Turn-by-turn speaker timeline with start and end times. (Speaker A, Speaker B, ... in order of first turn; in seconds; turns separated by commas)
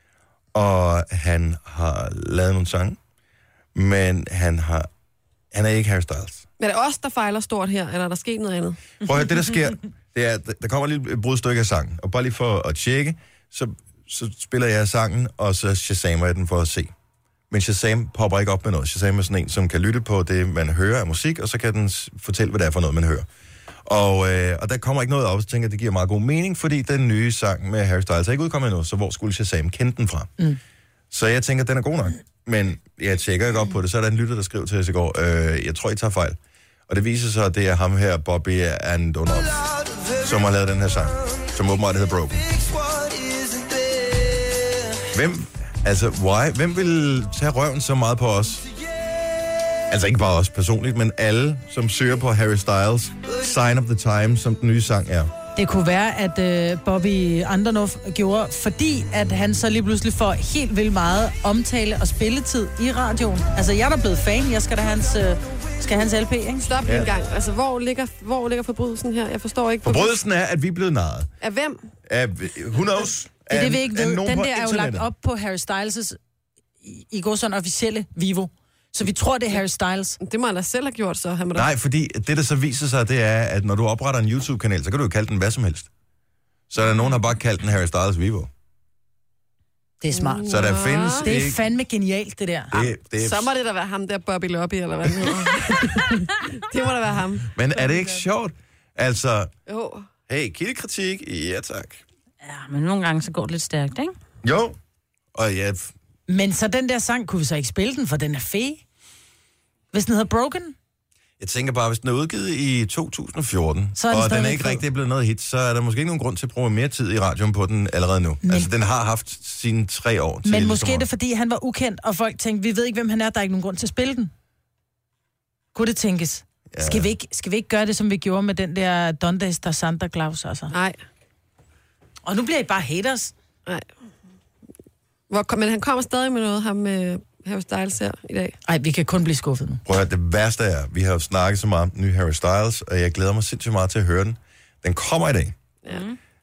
Speaker A: 0.5-3.0, Speaker A: 3.8-4.9, Speaker A: 5.5-6.5, Speaker B: 6.6-8.8, Speaker A: 9.0-16.9, Speaker A: 17.5-23.3, Speaker A: 23.9-30.4, Speaker A: 31.1-36.4, Speaker A: 36.9-42.5, Speaker A: 45.1-48.6, Speaker A: 49.9-55.3, Speaker C: 55.6-66.8, Speaker B: 66.6-70.1, Speaker A: 66.9-67.1, Speaker A: 69.8-71.3, Speaker B: 71.4-71.9, Speaker A: 72.1-75.1, Speaker C: 73.5-76.2, Speaker C: 76.8-80.2, Speaker B: 80.2-81.7, Speaker A: 81.6-85.9, Speaker A: 86.7-88.5, Speaker C: 90.0-92.8, Speaker B: 90.1-91.3, Speaker A: 90.5-91.6, Speaker A: 92.7-93.5, Speaker B: 93.2-97.5, Speaker A: 97.5-99.5, Speaker B: 99.7-100.1, Speaker A: 100.3-102.0, Speaker D: 102.4-104.1, Speaker A: 104.4-104.8, Speaker A: 105.3-105.9, Speaker C: 106.3-108.8, Speaker C: 109.9-110.8, Speaker A: 111.4-121.1, Speaker C: 114.0-114.8, Speaker C: 118.4-118.7, Speaker C: 120.5-124.3, Speaker C: 125.7-130.7, Speaker A: 126.7-127.1, Speaker B: 130.7-131.0, Speaker C: 132.3-133.3, Speaker B: 133.7-133.9, Speaker B: 135.3-138.6, Speaker C: 138.7-139.8, Speaker A: 139.9-145.6, Speaker D: 145.9-146.2